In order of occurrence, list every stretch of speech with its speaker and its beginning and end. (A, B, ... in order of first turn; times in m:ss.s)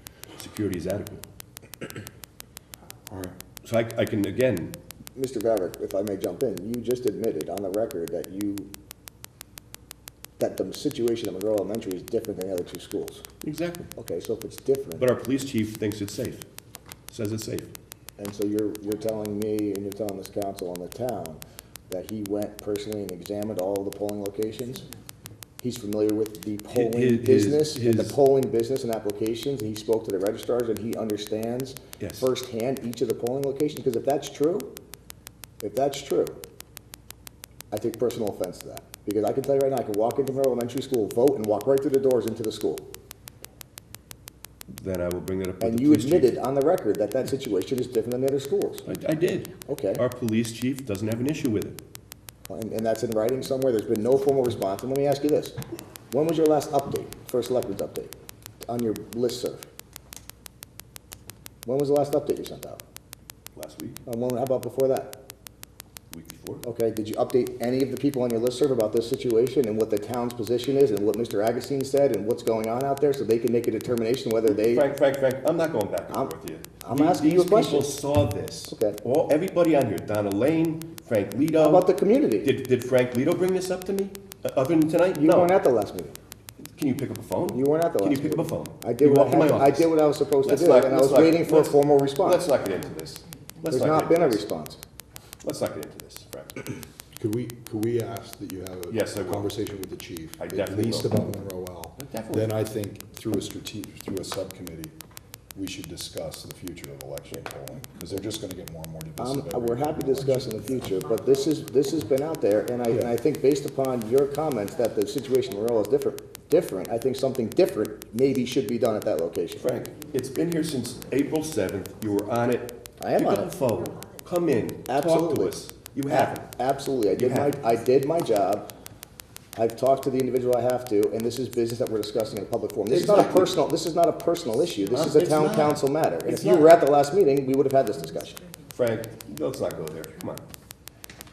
0:00.4-0:01.2 A
0:03.1-0:03.3 B
0:03.6-0:04.7 A
0:05.2-0:08.7 C
0:10.4-0:13.2 C
0:13.4-0:13.9 A
0:14.0-0:15.1 C
0:15.0-0:16.4 A
0:17.1-0:17.7 A
0:18.2-0:24.9 C
0:25.6-0:34.7 C
0:26.7-0:28.2 A
0:32.0-0:32.3 A
0:35.6-0:36.4 C
0:37.7-0:42.9 C
0:44.7-0:46.4 A
0:45.6-0:48.9 C
0:48.8-0:51.8 A
0:49.7-0:50.0 C
0:52.5-0:55.6 C
0:56.1-0:58.1 C
0:58.6-0:59.6 C
1:01.6-1:02.8 C
1:03.5-1:04.0 A
1:04.0-1:05.2 C
1:06.1-1:06.6 A
1:06.6-1:14.9 C
1:14.4-1:25.6 A
1:16.1-1:17.9 C
1:18.7-1:19.0 C
1:21.6-1:22.5 C
1:25.2-1:26.1 C
1:26.7-1:34.4 A
1:27.5-1:32.5 C
1:33.7-1:34.8 C
1:35.4-1:36.7 A
1:37.2-1:44.9 B
1:38.9-1:39.5 A
1:40.4-1:42.6 A
1:45.5-1:50.6 B
1:49.2-1:59.7 C
1:59.6-2:06.4 A
2:03.0-2:03.5 C
2:04.8-2:08.7 C
2:07.1-2:07.6 A
2:09.5-2:18.4 C
2:12.9-2:13.5 A
2:14.9-2:16.8 A
2:18.7-2:20.4 A